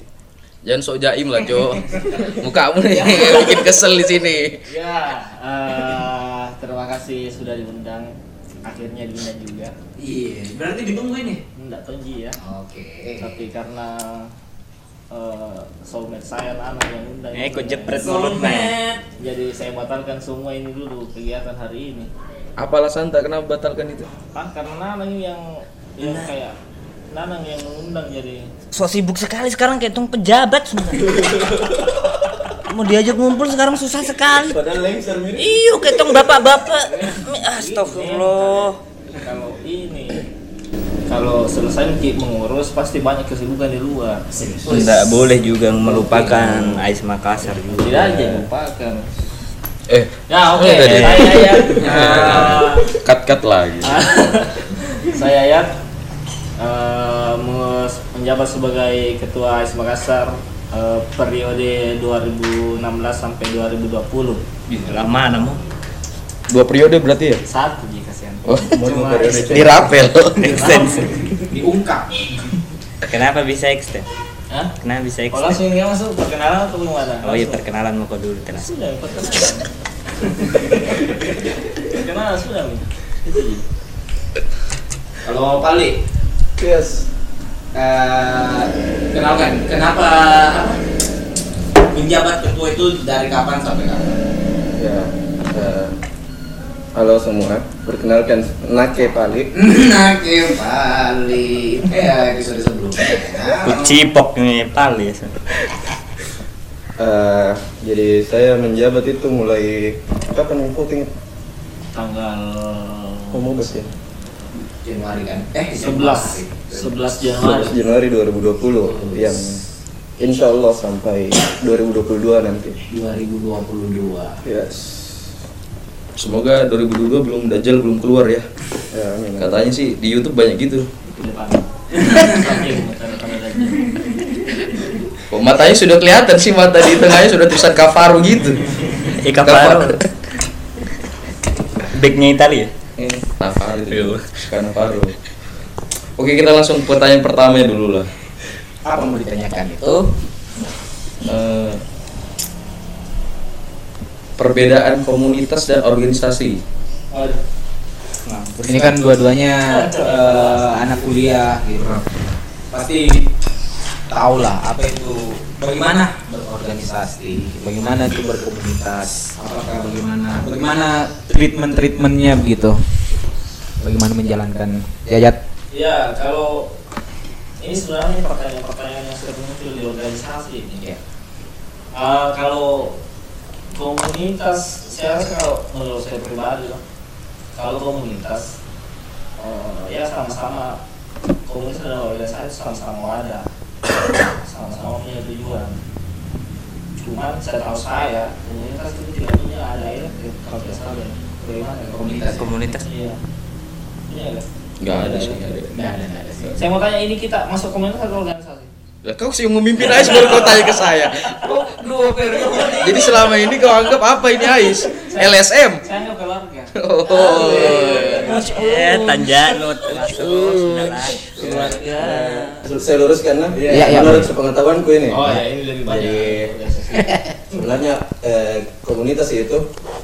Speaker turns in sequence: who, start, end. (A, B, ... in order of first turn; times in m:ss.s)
0:00.6-0:04.6 A
0:03.0-0:03.6 B
0:04.6-0:09.7 B
0:10.0-0:11.4 C
0:11.5-0:12.4 B
0:12.4-0:13.4 C
0:13.2-0:14.3 B
0:15.1-0:22.1 B
0:17.3-0:18.8 D
0:22.6-0:24.1 A
0:24.3-0:26.5 B
0:26.0-0:26.3 D
0:27.1-0:28.5 B
0:28.7-0:31.3 D
0:31.2-0:31.8 E
0:32.6-0:34.6 D
0:34.3-0:36.3 E
0:35.4-0:38.8 D
0:36.7-0:40.3 B
0:41.1-0:44.7 B
0:44.4-0:44.8 C
0:44.6-0:48.5 D
0:44.7-0:45.0 A
0:45.9-0:46.7 C
0:47.8-0:49.1 B
0:49.9-0:54.0 A
0:50.3-0:52.9 B
0:51.8-0:52.6 C
0:53.8-0:55.7 B
0:56.6-1:04.4 B
1:04.7-1:05.0 C
1:04.8-1:05.6 D
1:06.5-1:07.4 A
1:07.4-1:11.2 B
1:08.2-1:09.5 C
1:08.4-1:08.8 A
1:08.7-1:09.8 E
1:09.4-1:10.5 A
1:10.3-1:11.5 D
1:11.5-1:12.2 C
1:13.0-1:14.1 D
1:14.8-1:15.6 D
1:15.3-1:17.6 B
1:17.2-1:18.7 D
1:18.5-1:19.7 B
1:20.3-1:21.1 B
1:21.8-1:23.6 B
1:25.2-1:26.0 C
1:26.6-1:27.1 E
1:27.7-1:30.8 C
1:31.9-1:34.2 C
1:34.8-1:36.0 E
1:36.9-1:39.5 E
1:39.5-1:43.9 C
1:43.6-1:45.4 D
1:47.0-1:51.1 E
1:51.9-1:53.4 B
1:53.3-1:53.9 E
1:54.8-1:56.9 C
1:55.7-1:57.8 B
1:57.4-1:59.6 E
1:58.8-1:59.6 C
2:00.2-2:02.8 E
2:02.9-2:04.4 C
2:04.4-2:05.2 E
2:06.2-2:08.4 A
2:08.9-2:09.7 E
2:09.4-2:10.9 A
2:11.1-2:14.0 B
2:15.3-2:18.6 A
2:19.0-2:20.0 D
2:19.4-2:20.1 A
2:21.8-2:22.8 D
2:23.0-2:25.1 A
2:23.9-2:24.4 D
2:26.2-2:28.1 A
2:28.8-2:30.1 C
2:31.2-2:31.8 A
2:34.4-2:36.6 A
2:38.3-2:38.9 D
2:38.6-2:42.2 C
2:39.7-2:41.1 B
2:42.7-2:43.2 C
2:44.1-2:52.8 C
2:53.8-2:55.4 C
2:55.7-2:56.8 B
2:57.6-3:00.9 B
3:01.9-3:03.0 B
3:03.7-3:06.8 B
3:07.5-3:08.6 B
3:09.4-3:10.8 B
3:11.4-3:13.5 B
3:14.4-3:15.8 B
3:17.0-3:22.2 B
3:21.9-3:22.5 C
3:22.4-3:22.8 D
3:22.8-3:23.2 B
3:24.1-3:25.4 B
3:24.8-3:25.8 A
3:25.7-3:26.7 C
3:26.5-3:28.7 B
3:29.0-3:31.6 A
3:30.0-3:30.7 C
3:31.3-3:33.3 C
3:32.4-3:33.1 B
3:32.7-3:35.8 A
3:34.9-3:39.2 B
3:36.8-3:38.4 A
3:37.1-3:39.3 C
3:38.3-3:41.3 D
3:39.9-3:42.6 B
3:40.0-3:40.6 C
3:41.4-3:46.5 E
3:43.5-3:44.2 B
3:43.7-3:44.3 C
3:45.1-3:47.6 B
3:47.5-3:49.6 E